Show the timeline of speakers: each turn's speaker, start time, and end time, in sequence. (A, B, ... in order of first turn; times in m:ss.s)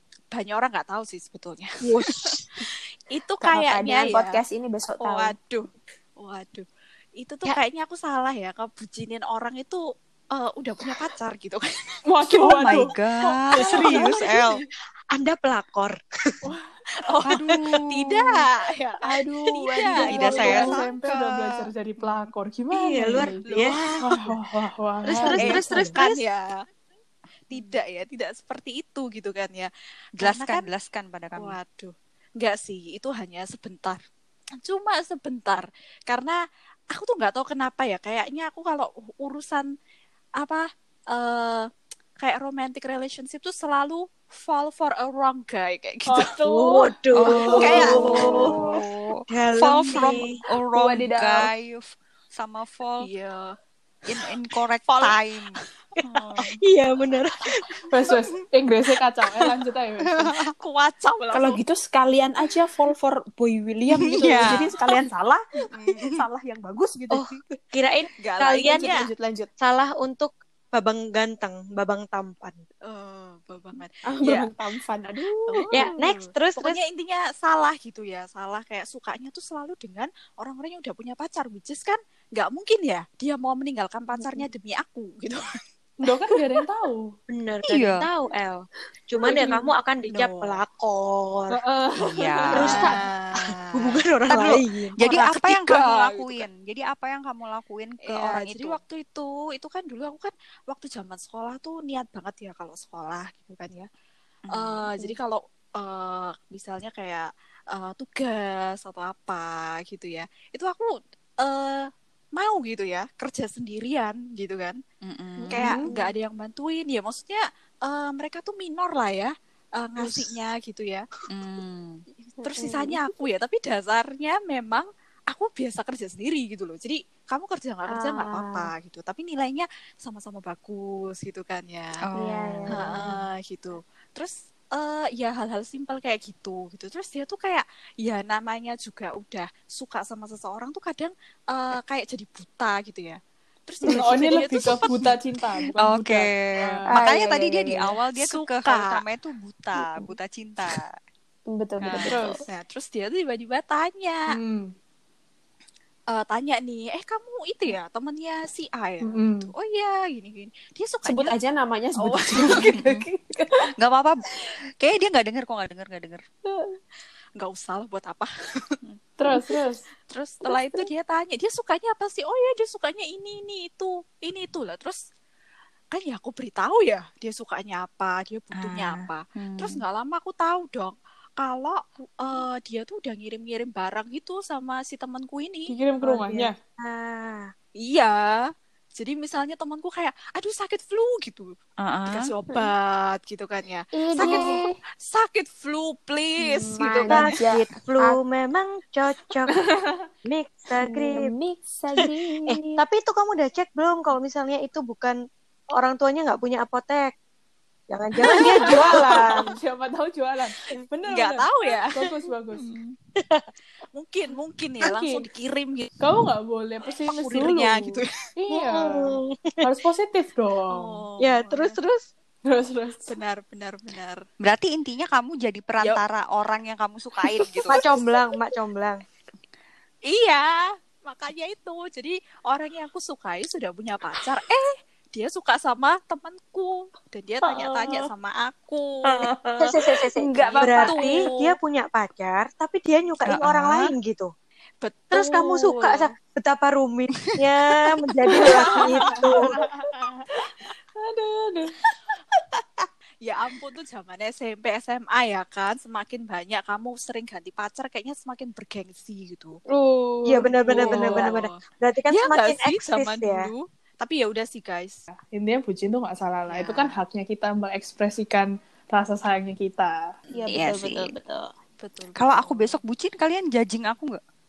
0:00.3-0:04.4 A
0:03.4-0:05.3 B
0:05.0-0:06.7 A
0:07.2-0:11.6 A
0:12.0-0:13.0 C
0:12.2-0:14.6 D
0:13.6-0:14.6 E
0:13.6-0:14.2 A
0:15.1-0:16.4 E
0:16.4-0:16.7 C
0:16.9-0:20.8 A
0:17.2-0:18.4 D
0:19.0-0:20.7 B
0:20.0-0:23.4 C
0:20.1-0:22.1 D
0:22.7-0:23.8 E
0:23.4-0:24.3 A
0:24.0-0:25.7 C
0:25.0-0:26.2 E
0:25.3-0:26.6 A
0:27.5-0:30.7 A
0:27.5-0:27.8 D
0:30.2-0:31.6 D
0:31.4-0:34.0 A
0:34.6-0:36.4 A
0:36.9-0:39.7 A
0:40.4-0:46.4 A
0:46.1-0:47.8 C
0:46.4-0:48.6 E
0:47.2-0:53.1 D
0:47.4-0:48.5 A
0:49.3-0:50.3 E
0:50.7-0:51.5 B
0:53.0-0:53.6 A
0:54.1-0:56.6 D
0:54.9-0:55.1 A
0:56.6-0:57.5 E
0:57.9-1:00.4 C
1:00.2-1:00.5 D
1:00.4-1:01.6 A
1:01.3-1:07.6 B
1:03.9-1:04.8 D
1:05.7-1:06.2 D
1:07.1-1:08.9 E
1:08.2-1:09.1 A
1:08.6-1:09.5 B
1:09.6-1:12.6 E
1:12.8-1:14.6 A
1:14.0-1:15.9 B
1:15.5-1:25.6 A
1:15.7-1:16.8 E
1:24.1-1:24.5 B
1:26.0-1:27.1 C
1:27.3-1:31.6 E
1:27.7-1:28.0 D
1:29.3-1:29.6 C
1:29.3-1:29.6 B
1:30.0-1:30.6 A
1:31.5-1:32.9 C
1:32.0-1:32.9 D
1:32.5-1:35.4 E
1:32.6-1:34.4 A
1:34.4-1:38.8 D
1:35.3-1:36.4 A
1:38.0-1:43.9 A
1:44.5-1:44.9 D
1:44.5-1:54.8 A
1:55.0-1:55.8 D
1:55.4-1:56.1 B
1:55.5-2:01.1 A
2:01.3-2:02.0 D
2:02.2-2:12.0 A
2:02.4-2:03.1 B
2:07.9-2:08.7 B
2:12.0-2:13.0 D
2:12.1-2:13.1 B
2:12.7-2:25.2 A
2:23.8-2:24.4 B
2:23.8-2:27.0 C
2:25.8-2:30.9 D
2:26.9-2:27.9 B
2:28.2-2:29.0 A
2:29.8-2:30.1 B
2:31.5-2:32.4 B
2:31.8-2:32.2 D
2:32.1-2:32.4 C
2:32.2-2:34.4 A
2:34.3-2:34.7 C
2:36.1-2:41.3 A
2:39.0-2:39.5 C
2:41.0-2:43.7 B
2:42.1-2:42.7 A
2:42.4-2:43.0 D
2:43.8-2:46.2 D
2:46.4-2:46.8 B
2:47.4-2:48.8 A
2:49.2-2:49.8 C
2:50.1-2:55.0 A
2:50.4-2:50.9 B
2:55.9-3:05.7 A
2:58.6-2:59.8 D
3:05.7-3:06.6 C
3:06.0-3:07.5 E
3:07.8-3:11.6 A
3:11.8-3:12.3 D
3:12.1-3:17.3 A
3:13.9-3:14.8 B
3:14.2-3:14.5 E
3:16.4-3:18.2 B
3:17.1-3:19.5 E
3:19.5-3:20.0 C
3:20.2-3:21.3 E
3:20.8-3:22.8 B
3:22.5-3:25.2 E
3:25.7-3:27.1 E
3:27.9-3:29.5 E
3:28.3-3:32.8 C
3:28.3-3:29.0 A
3:31.1-3:32.1 A
3:32.6-3:32.9 A
3:33.2-3:33.5 E
3:33.9-3:35.9 A
3:34.8-3:35.3 C
3:36.0-3:41.0 C
3:37.1-3:38.3 A
3:38.5-3:39.6 E
3:40.7-3:41.8 A
3:41.2-3:42.0 E
3:42.5-3:43.2 C
3:43.0-3:44.2 A
3:44.4-3:47.8 D
3:47.4-3:47.8 A
3:47.7-3:49.0 E
3:50.0-3:59.4 A
3:57.4-3:58.1 B
3:59.1-3:59.5 B
3:59.6-4:04.3 E
4:00.2-4:01.3 B
4:00.4-4:01.6 A
4:03.2-4:03.8 D
4:04.8-4:06.1 A
4:05.1-4:09.6 E
4:08.3-4:09.4 A
4:08.6-4:10.0 C
4:11.0-4:11.8 C
4:11.8-4:19.6 A
4:19.7-4:21.2 B
4:20.2-4:23.5 E
4:20.7-4:21.6 A
4:20.9-4:21.1 C
4:22.1-4:25.1 A
4:25.1-4:30.0 C
4:26.5-4:26.9 A
4:30.3-4:31.5 B
4:30.5-4:31.1 D
4:31.8-4:32.8 A
4:32.1-4:34.2 D